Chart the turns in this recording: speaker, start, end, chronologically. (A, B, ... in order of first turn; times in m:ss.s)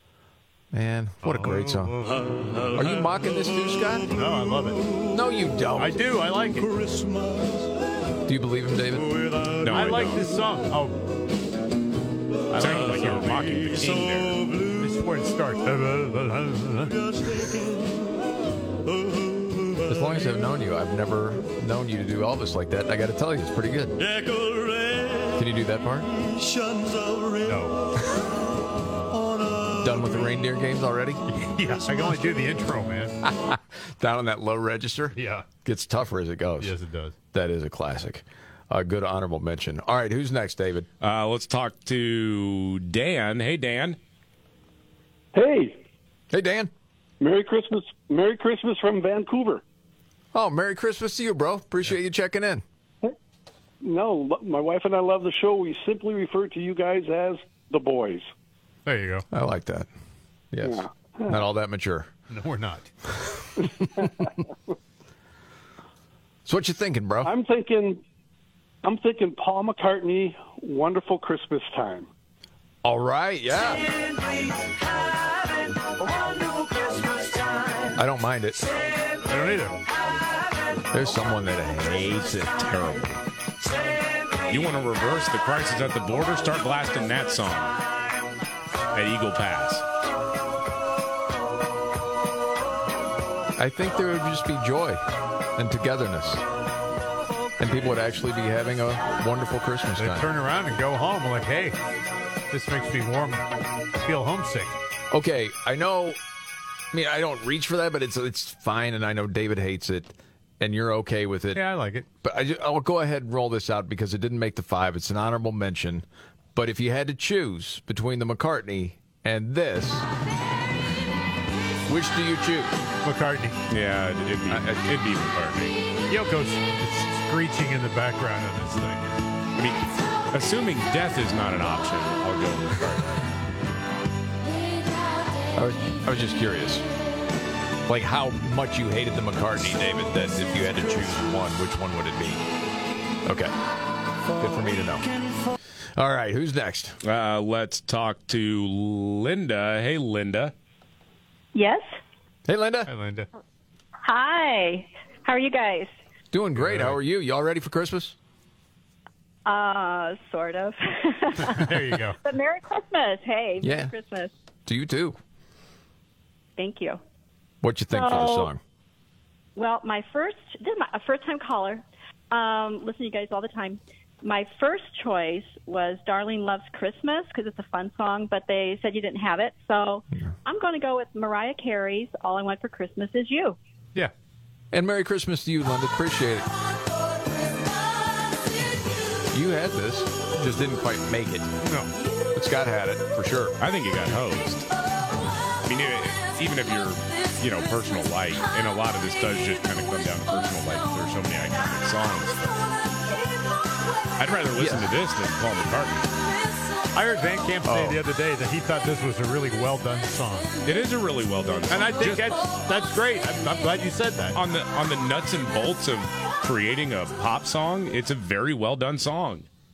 0:00.7-0:02.0 A
0:01.2-0:02.3 B
0:02.7-0:04.1 A
0:04.1-0:04.9 B
0:05.1-0:06.0 A
0:05.8-0:06.9 B
0:08.3-0:09.2 A
0:09.4-0:11.0 B
0:09.6-0:10.2 C
0:12.5-0:13.6 B
0:12.6-0:14.4 C
0:14.7-0:17.1 B
0:19.9-0:24.0 A
0:25.3-0:26.1 A
0:27.4-0:27.8 B
0:29.7-0:31.2 A
0:31.3-0:33.2 B
0:33.2-0:36.7 A
0:35.2-0:35.5 B
0:36.6-0:37.2 B
0:37.3-0:40.9 A
0:41.0-0:44.0 C
0:45.4-0:45.8 D
0:46.3-0:46.7 A
0:47.3-0:49.6 D
0:50.3-0:52.6 A
0:53.9-0:58.2 D
0:58.9-0:59.3 B
0:59.3-0:59.9 A
1:00.5-1:02.1 A
1:02.3-1:02.9 B
1:06.5-1:07.3 A
1:07.5-1:08.0 D
1:09.0-1:12.0 D
1:12.8-1:13.9 A
1:17.9-1:18.6 A
1:19.3-1:19.8 B
1:20.9-1:23.2 A
1:24.5-1:27.8 C
1:28.9-1:29.8 C
1:33.6-1:35.0 A
1:35.6-1:36.4 A
1:37.6-1:40.3 A
1:40.0-1:41.8 B
1:42.5-1:43.5 B
1:44.0-1:44.8 B
1:45.1-1:46.2 A
1:46.9-1:51.6 A
1:51.5-1:52.1 B
1:52.2-2:00.1 A
2:01.9-2:02.8 A
2:03.0-2:03.6 B
2:03.7-2:05.8 C
2:04.5-2:04.8 A
2:06.1-2:09.2 B
2:09.6-2:13.2 C
2:15.6-2:16.8 A
2:17.9-2:22.4 A
2:23.3-2:23.5 A
2:24.4-2:25.0 A
2:26.0-2:27.0 A
2:27.0-2:30.5 C
2:31.6-2:31.9 E
2:32.5-2:32.9 A
2:32.9-2:33.3 B
2:34.0-2:35.9 E
2:36.3-2:38.2 A
2:36.6-2:37.0 B
2:39.5-2:44.3 E
2:41.4-2:42.2 B
2:43.6-2:43.9 A
2:44.7-2:45.2 A
2:46.6-2:47.0 E
2:47.6-2:48.6 A
2:47.9-2:48.5 E
2:49.6-3:03.6 E
3:04.7-3:06.5 A
3:09.3-3:11.5 A
3:11.6-3:11.9 B
3:12.4-3:13.6 A
3:13.6-3:14.7 C
3:15.6-3:22.6 C
3:24.2-3:26.1 C
3:24.6-3:24.9 A
3:27.0-3:30.5 B
3:30.6-3:32.5 C
3:31.7-3:34.4 B
3:34.4-3:39.5 C